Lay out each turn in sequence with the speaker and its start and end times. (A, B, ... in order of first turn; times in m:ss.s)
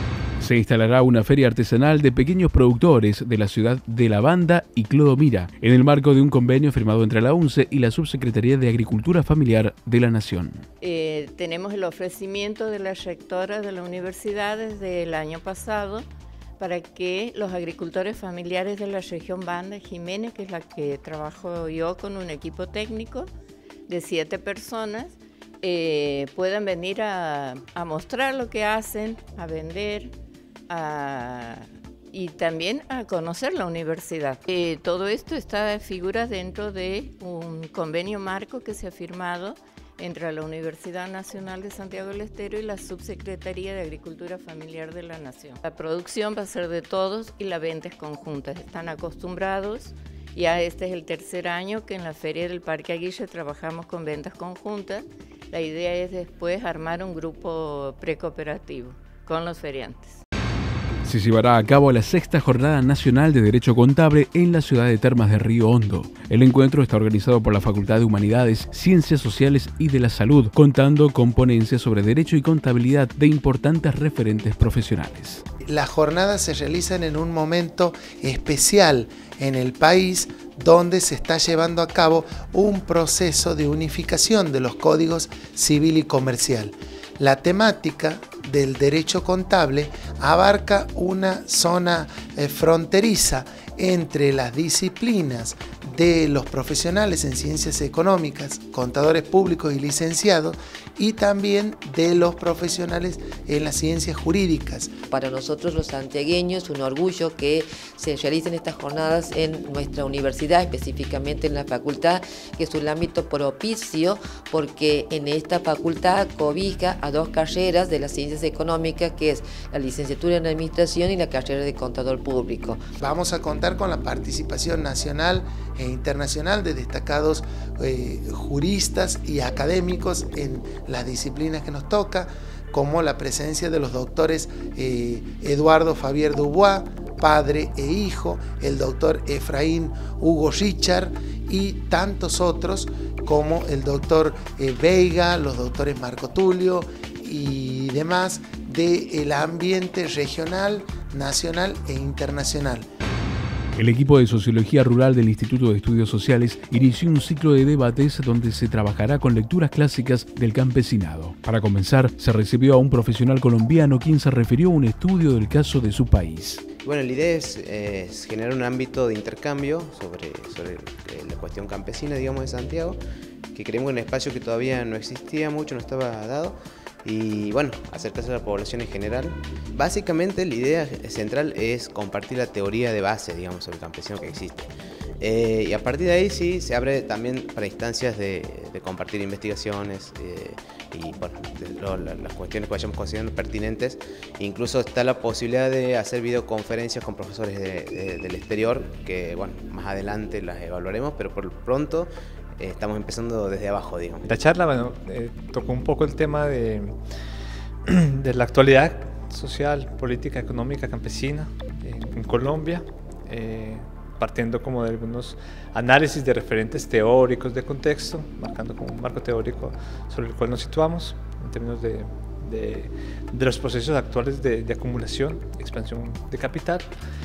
0:00.4-0:10.6 A
0:10.8-0:23.3 B
0:23.9-0:30.1 B
0:30.7-1:00.2 B
1:01.0-1:15.4 A
1:15.7-1:44.9 C
1:45.1-2:02.8 D
2:03.0-2:32.9 C
2:33.8-2:46.6 A
2:46.8-2:53.0 E
2:53.5-3:24.3 E
3:24.2-3:26.9 F
3:27.9-3:46.9 F